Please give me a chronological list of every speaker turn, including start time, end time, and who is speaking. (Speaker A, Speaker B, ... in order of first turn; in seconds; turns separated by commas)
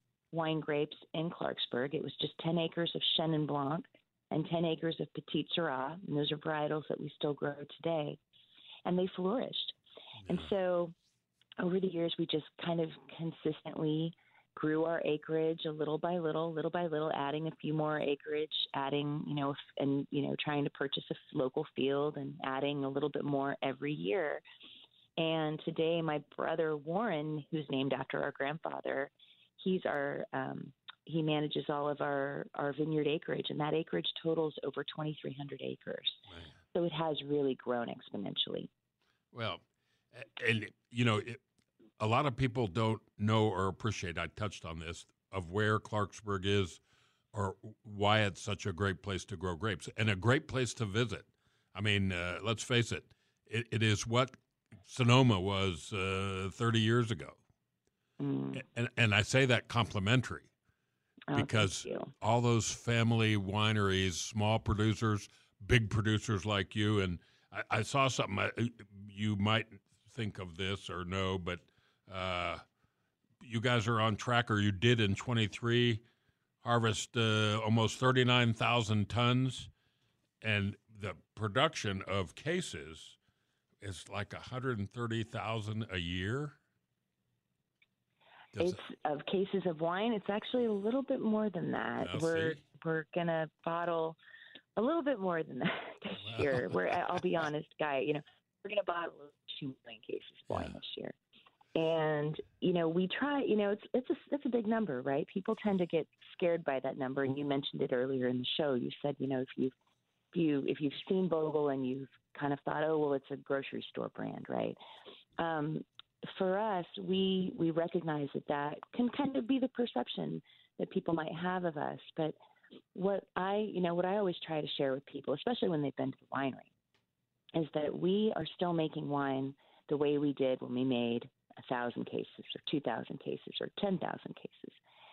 Speaker A: 0.3-8.2, Speaker A: 8.8-9.7, Speaker B: 10.2-10.5, Speaker A: 10.3-10.9, Speaker A: 11.6-24.4, Speaker A: 25.2-36.2, Speaker A: 36.7-38.7, Speaker B: 39.3-39.6, Speaker B: 40.1-41.4, Speaker B: 42.0-46.8, Speaker B: 47.3-57.4, Speaker A: 58.2-58.6, Speaker B: 58.5-60.5, Speaker A: 61.3-62.1, Speaker B: 61.3-72.6, Speaker B: 73.4-76.0, Speaker B: 76.6-79.7, Speaker B: 80.4-83.2, Speaker B: 83.8-86.5, Speaker B: 88.5-88.8, Speaker A: 88.6-94.2, Speaker B: 92.0-92.6, Speaker A: 94.8-101.1, Speaker B: 96.2-97.0, Speaker B: 100.5-100.7, Speaker A: 101.7-109.7, Speaker A: 110.3-114.8, Speaker A: 115.4-122.4, Speaker A: 122.9-126.7, Speaker A: 127.5-134.8